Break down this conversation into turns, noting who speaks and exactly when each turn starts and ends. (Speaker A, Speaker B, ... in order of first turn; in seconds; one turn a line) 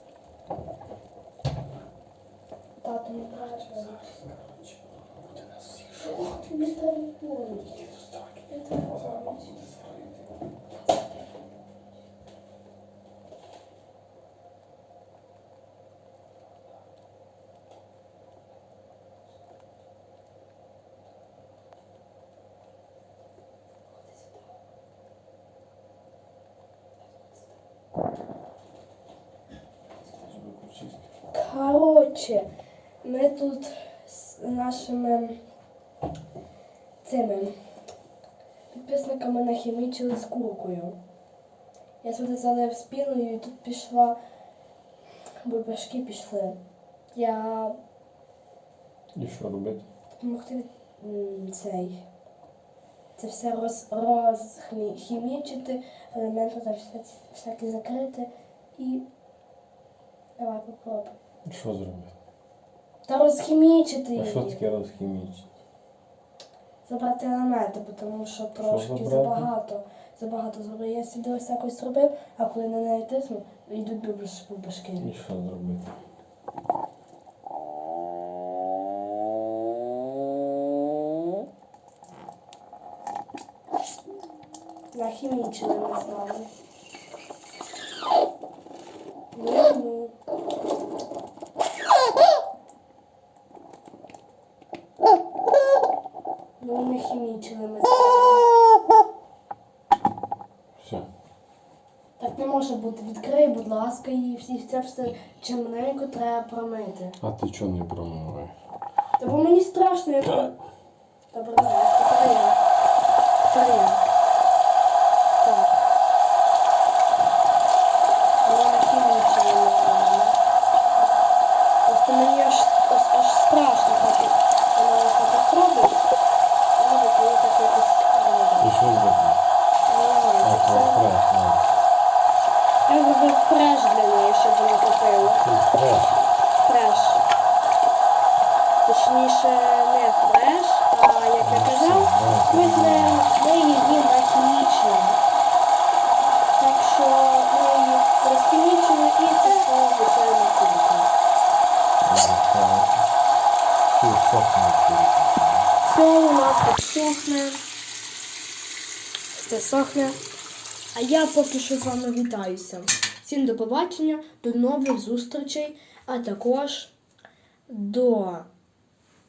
Speaker A: 2.8-4.2
Speaker B: 3.8-6.4
Speaker A: 6.0-7.9
Speaker A: 8.5-9.6
Speaker B: 8.8-10.2
Speaker B: 30.2-31.0
Speaker A: 31.3-32.5
Speaker A: 33.0-35.4
Speaker A: 37.0-37.5
Speaker A: 38.7-41.0
Speaker A: 42.0-44.2
Speaker A: 45.4-46.6
Speaker A: 47.1-47.8
Speaker B: 49.2-49.9
Speaker A: 50.2-52.0
Speaker A: 53.2-59.1
Speaker A: 60.4-61.2
Speaker B: 61.5-62.1
Speaker A: 63.1-64.6
Speaker B: 64.2-65.5
Speaker A: 66.8-75.1
Speaker B: 68.6-69.5
Speaker B: 75.0-76.0
Speaker A: 84.9-86.5
Speaker A: 89.3-90.2
Speaker A: 96.6-98.5
Speaker B: 100.8-101.1
Speaker A: 102.2-107.2
Speaker B: 107.2-108.6
Speaker A: 109.2-110.5
Speaker A: 111.3-112.6
Speaker A: 113.4-114.0
Speaker A: 115.4-115.8
Speaker A: 118.4-120.4
Speaker A: 121.9-126.0
Speaker A: 126.8-128.7
Speaker B: 128.6-129.4
Speaker A: 129.9-131.1
Speaker B: 130.4-131.7
Speaker A: 132.9-135.5
Speaker B: 135.4-136.2
Speaker A: 136.6-137.2
Speaker A: 138.8-145.2
Speaker B: 141.4-143.3
Speaker A: 146.6-151.1
Speaker B: 152.1-153.1
Speaker B: 153.9-155.7
Speaker A: 155.9-157.6
Speaker A: 159.3-160.2
Speaker A: 160.9-166.9
Speaker A: 167.7-168.5